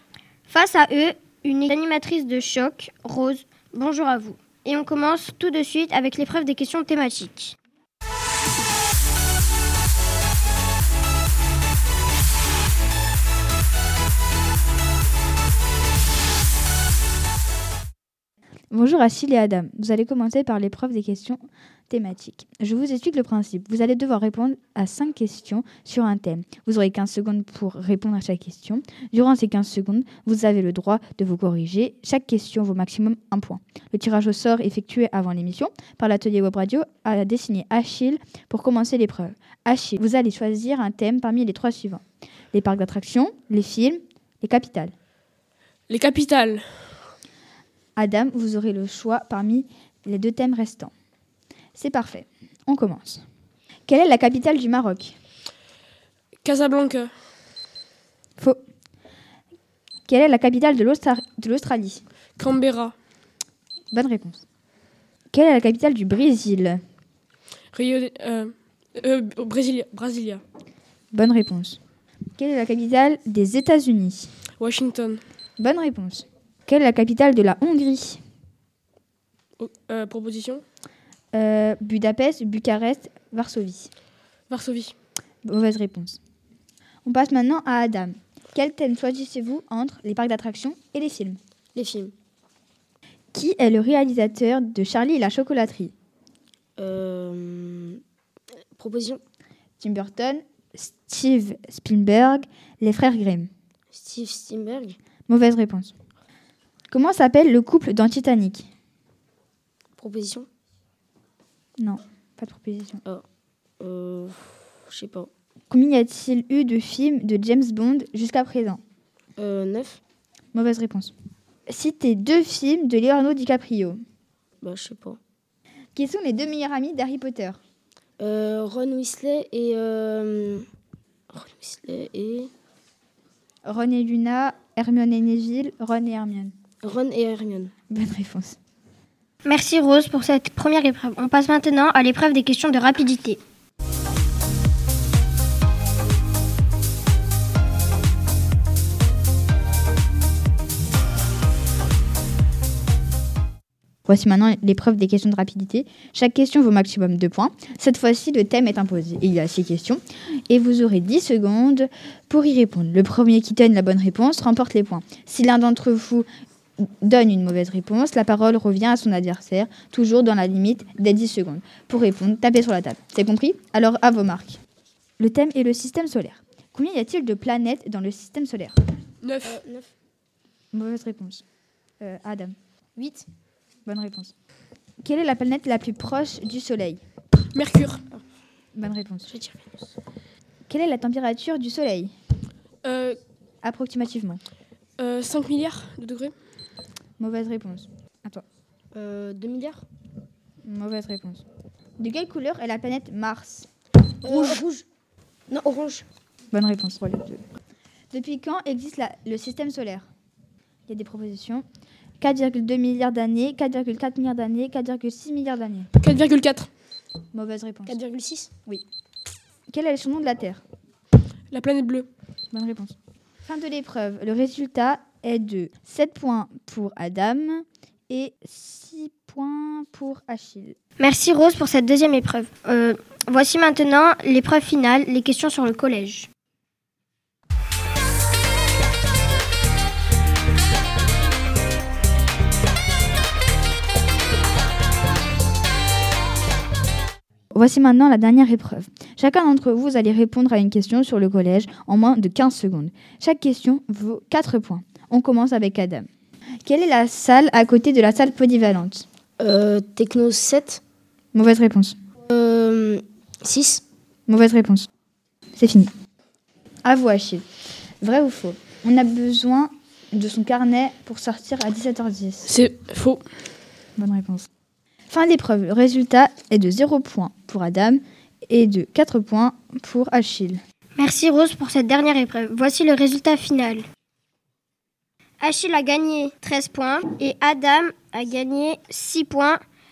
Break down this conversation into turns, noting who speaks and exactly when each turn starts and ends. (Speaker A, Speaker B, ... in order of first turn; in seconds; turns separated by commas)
Speaker A: 0.5-7.5, Speaker B: 18.7-44.9, Speaker C: 45.9-46.6, Speaker B: 48.0-50.9, Speaker B: 51.8-53.2, Speaker B: 53.9-55.1, Speaker C: 56.4-57.1, Speaker B: 60.1-62.0, Speaker C: 62.4-62.9, Speaker B: 63.9-64.4, Speaker B: 65.3-66.8, Speaker C: 67.7-70.4, Speaker B: 71.1-71.8, Speaker B: 72.4-74.3, Speaker C: 74.6-75.2, Speaker B: 75.6-78.2, Speaker C: 79.6-80.6, Speaker B: 81.3-83.9, Speaker C: 84.5-84.9, Speaker B: 85.4-86.2, Speaker B: 87.0-91.4, Speaker D: 91.7-92.1, Speaker B: 93.3-95.9, Speaker D: 96.8-98.0, Speaker D: 98.8-99.2, Speaker B: 99.8-103.5, Speaker D: 103.9-105.0, Speaker B: 105.3-105.9, Speaker B: 106.9-108.7, Speaker D: 110.0-110.5, Speaker B: 111.8-113.0, Speaker D: 113.8-115.3, Speaker B: 115.7-118.8, Speaker D: 119.4-120.0, Speaker B: 120.5-121.1, Speaker B: 121.7-124.0, Speaker D: 124.6-125.2, Speaker B: 125.9-127.6, Speaker D: 128.2-130.6, Speaker D: 131.3-132.5, Speaker B: 133.6-136.5, Speaker D: 136.8-137.7, Speaker B: 137.9-138.6, Speaker A: 139.4-143.4, Speaker B: 154.1-166.3, Speaker B: 166.8-174.6, Speaker B: 175.2-178.8, Speaker C: 179.2-179.6, Speaker D: 179.4-179.9, Speaker B: 180.7-181.4, Speaker B: 182.0-182.5, Speaker D: 183.0-183.2, Speaker B: 183.8-184.3, Speaker B: 185.0-187.0, Speaker C: 187.5-188.1, Speaker B: 188.7-189.3, Speaker D: 189.3-189.9, Speaker B: 190.7-192.1, Speaker C: 192.8-193.2, Speaker B: 193.6-194.4, Speaker C: 195.0-196.3, Speaker B: 197.2-198.4, Speaker D: 198.9-199.8, Speaker B: 200.6-201.4, Speaker B: 202.0-203.7, Speaker D: 204.2-204.8, Speaker B: 204.3-204.6, Speaker D: 205.5-206.1, Speaker B: 206.5-207.4, Speaker B: 208.1-210.1, Speaker B: 210.9-211.6, Speaker B: 212.2-215.9, Speaker C: 216.0-216.7, Speaker B: 217.3-218.0, Speaker D: 217.9-218.5, Speaker B: 219.7-220.6, Speaker C: 221.5-222.1, Speaker B: 222.5-230.8, Speaker A: 231.0-236.3, Speaker B: 247.5-256.1, Speaker B: 256.6-259.0, Speaker D: 259.4-260.8, Speaker B: 261.3-261.9, Speaker D: 262.3-263.8, Speaker B: 264.3-264.9, Speaker B: 265.6-265.9, Speaker B: 266.8-267.4, Speaker B: 268.0-272.5, Speaker C: 272.4-273.2, Speaker B: 274.0-274.5, Speaker B: 275.1-280.6, Speaker A: 281.0-283.8, Speaker A: 285.4-289.6